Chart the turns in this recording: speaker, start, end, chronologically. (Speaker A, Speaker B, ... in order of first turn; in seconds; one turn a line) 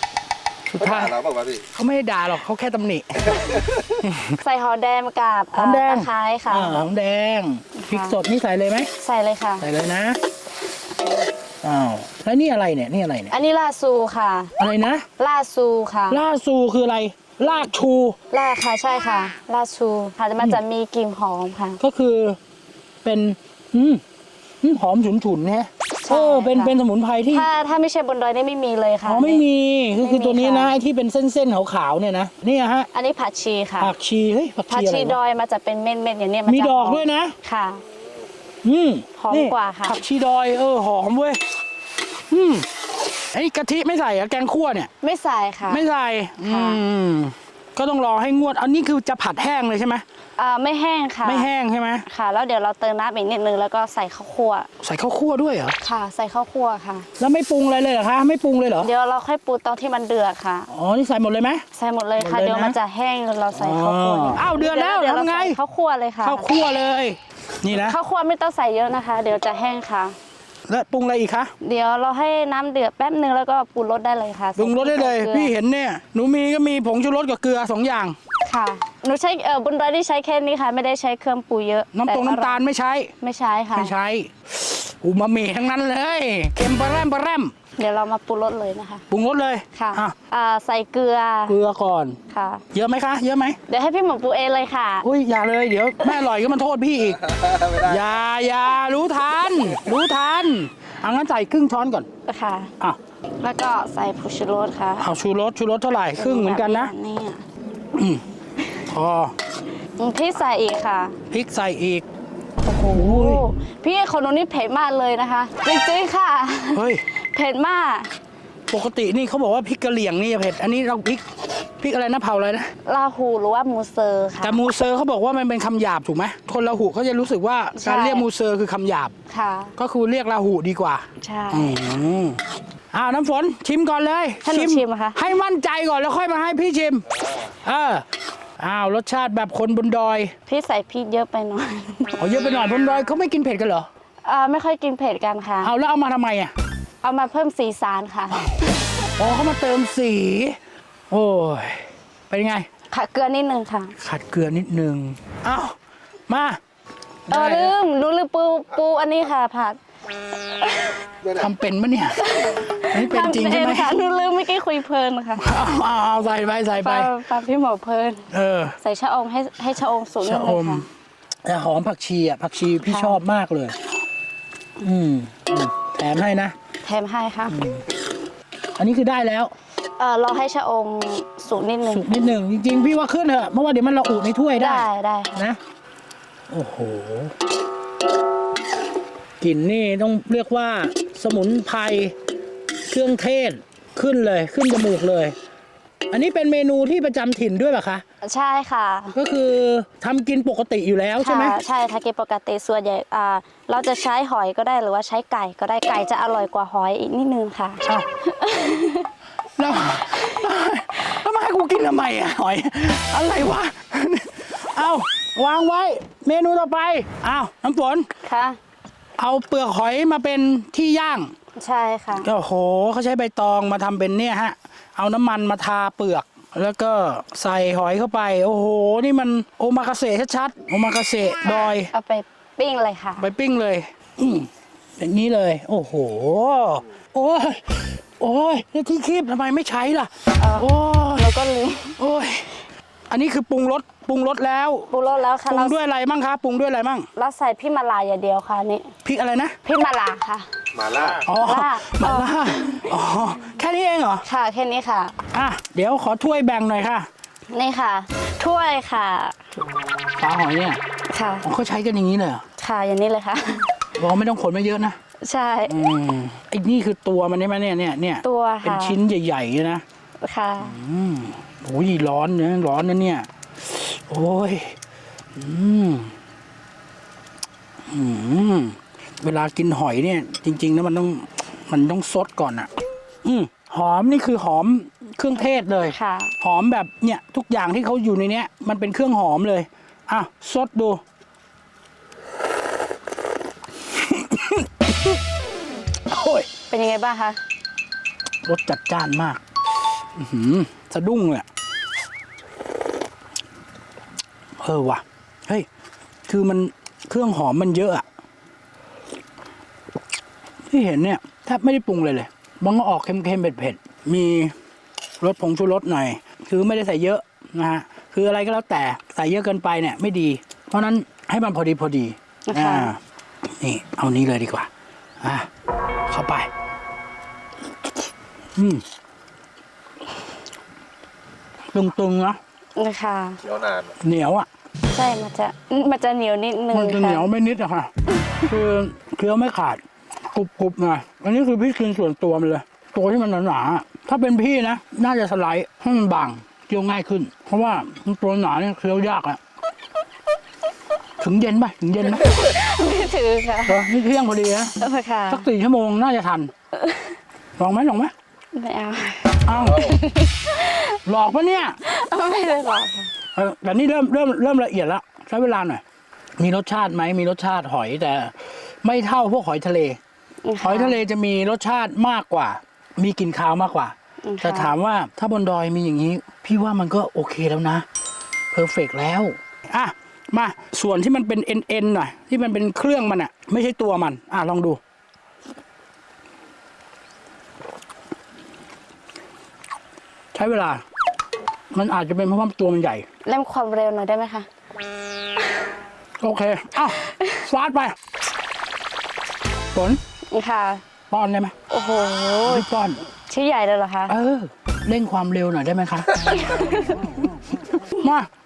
Speaker A: 0.7-1.2
Speaker B: 0.8-1.7
Speaker A: 1.8-3.4
Speaker A: 4.0-4.4
Speaker C: 4.4-6.7
Speaker A: 5.5-8.9
Speaker C: 7.8-8.2
Speaker C: 9.0-9.7
Speaker A: 9.6-10.2
Speaker A: 11.6-13.3
Speaker C: 13.3-14.5
Speaker A: 14.6-15.1
Speaker C: 15.2-16.2
Speaker A: 16.1-18.2
Speaker C: 18.3-21.8
Speaker A: 21.8-22.4
Speaker A: 23.0-24.0
Speaker A: 24.6-27.5
Speaker C: 26.0-26.7
Speaker C: 27.3-29.4
Speaker A: 29.0-32.9
Speaker C: 30.0-30.7
Speaker C: 32.9-33.9
Speaker A: 33.8-35.2
Speaker C: 34.7-37.8
Speaker A: 36.5-37.4
Speaker A: 38.6-41.4
Speaker C: 39.2-40.0
Speaker A: 42.3-42.7
Speaker A: 43.3-44.9
Speaker C: 45.0-45.9
Speaker A: 45.7-50.0
Speaker C: 46.4-46.8
Speaker C: 50.4-51.5
Speaker A: 51.2-52.0
Speaker C: 52.1-54.7
Speaker A: 54.8-55.8
Speaker C: 55.8-57.1
Speaker A: 57.2-58.9
Speaker C: 58.8-60.7
Speaker A: 60.7-61.6
Speaker C: 61.7-66.5
Speaker A: 62.2-62.8
Speaker A: 63.6-65.6
Speaker A: 66.2-68.0
Speaker C: 67.7-70.2
Speaker A: 70.7-71.5
Speaker C: 71.6-75.5
Speaker A: 74.6-78.2
Speaker C: 78.5-82.6
Speaker A: 81.9-83.1
Speaker C: 83.2-83.9
Speaker A: 83.7-87.5
Speaker C: 87.8-89.0
Speaker A: 89.1-90.2
Speaker C: 89.7-91.6
Speaker A: 91.5-92.2
Speaker C: 92.3-92.7
Speaker A: 92.7-93.6
Speaker C: 93.7-95.1
Speaker A: 95.0-102.1
Speaker B: 97.4-98.0
Speaker C: 102.3-102.7
Speaker C: 103.4-105.1
Speaker A: 105.0-106.9
Speaker C: 106.2-107.4
Speaker A: 108.0-108.2
Speaker A: 108.9-109.3
Speaker C: 110.0-111.2
Speaker A: 111.3-112.1
Speaker C: 112.6-118.1
Speaker A: 112.9-113.4
Speaker A: 116.7-117.0
Speaker A: 118.7-121.3
Speaker A: 121.8-122.7
Speaker C: 122.8-124.6
Speaker A: 124.4-129.1
Speaker C: 127.8-128.3
Speaker C: 129.3-129.8
Speaker A: 129.8-132.4
Speaker C: 131.2-131.8
Speaker A: 132.9-138.1
Speaker C: 134.4-135.3
Speaker A: 138.6-140.3
Speaker C: 140.5-142.2
Speaker A: 142.2-143.9
Speaker C: 144.2-145.7
Speaker A: 145.6-146.5
Speaker C: 147.0-148.7
Speaker A: 149.2-150.6
Speaker A: 151.1-152.7
Speaker C: 152.9-153.9
Speaker A: 154.0-155.8
Speaker A: 156.3-156.6
Speaker A: 157.3-157.8
Speaker C: 157.3-159.8
Speaker C: 160.6-161.0
Speaker A: 161.3-162.2
Speaker C: 162.2-165.5
Speaker A: 162.9-164.0
Speaker A: 165.4-167.1
Speaker C: 166.8-168.3
Speaker A: 168.3-168.8
Speaker C: 168.8-170.8
Speaker A: 170.2-170.9
Speaker A: 171.4-173.8
Speaker C: 172.8-173.2
Speaker A: 174.8-176.6
Speaker C: 176.8-177.6
Speaker A: 177.5-177.8
Speaker A: 178.8-179.5
Speaker C: 180.0-182.1
Speaker A: 181.9-185.6
Speaker C: 184.6-185.4
Speaker A: 186.5-187.3
Speaker A: 189.4-192.1
Speaker A: 192.9-195.4
Speaker A: 196.1-198.0
Speaker C: 198.2-199.2
Speaker A: 199.1-201.6
Speaker C: 201.2-209.1
Speaker A: 209.6-218.1
Speaker C: 210.1-210.4
Speaker C: 218.2-218.6
Speaker A: 219.2-221.3
Speaker C: 221.6-222.3
Speaker A: 222.2-231.9
Speaker C: 231.9-233.3
Speaker A: 233.2-241.3
Speaker C: 240.4-242.0
Speaker A: 242.0-242.5
Speaker A: 243.1-244.9
Speaker C: 244.9-245.8
Speaker A: 245.5-247.1
Speaker C: 247.2-248.9
Speaker A: 249.1-249.6
Speaker C: 249.7-250.5
Speaker B: 250.8-251.2
Speaker A: 251.2-254.2
Speaker C: 251.3-252.8
Speaker C: 254.2-255.2
Speaker A: 255.3-257.1
Speaker C: 257.5-259.4
Speaker A: 260.2-260.8
Speaker C: 261.1-261.5
Speaker A: 261.4-262.4
Speaker C: 262.6-263.7
Speaker A: 264.0-265.0
Speaker C: 265.2-265.8
Speaker A: 265.7-269.8
Speaker C: 268.2-269.0
Speaker C: 270.2-270.8
Speaker A: 270.6-274.8
Speaker A: 275.4-276.1
Speaker A: 277.9-282.7
Speaker A: 283.2-291.0
Speaker C: 285.8-286.4
Speaker A: 293.9-295.2
Speaker A: 296.1-296.5
Speaker C: 296.7-297.4
Speaker A: 298.4-299.4
Speaker A: 300.2-301.5
Speaker A: 304.6-305.7
Speaker A: 306.3-308.1
Speaker A: 310.7-314.5
Speaker A: 315.2-323.0
Speaker C: 322.5-322.9
Speaker A: 323.6-324.7
Speaker A: 325.2-325.5
Speaker A: 326.1-326.5
Speaker A: 328.6-328.8
Speaker A: 331.7-332.4
Speaker C: 332.8-333.4
Speaker B: 333.4-333.9
Speaker A: 334.0-334.5
Speaker C: 334.9-337.3
Speaker A: 336.7-337.9
Speaker C: 338.2-338.4
Speaker A: 338.5-349.4
Speaker A: 351.2-352.4
Speaker C: 352.1-353.9
Speaker A: 353.7-354.7
Speaker C: 354.8-355.5
Speaker A: 355.3-356.5
Speaker C: 356.8-357.1
Speaker A: 357.6-358.1
Speaker C: 358.5-361.0
Speaker A: 359.5-359.9
Speaker A: 361.1-361.8
Speaker C: 361.8-363.1
Speaker A: 363.4-365.8
Speaker A: 366.4-370.0
Speaker C: 370.4-371.0
Speaker A: 370.6-377.9
Speaker C: 374.2-374.7
Speaker A: 378.5-384.8
Speaker A: 390.3-390.8
Speaker A: 391.7-393.1
Speaker C: 393.2-394.5
Speaker A: 396.2-397.9
Speaker A: 399.7-400.0
Speaker C: 400.3-400.8
Speaker A: 401.1-401.5
Speaker C: 401.7-402.6
Speaker A: 402.5-403.0
Speaker C: 403.3-404.2
Speaker A: 404.1-406.1
Speaker C: 406.3-407.1
Speaker A: 407.9-408.3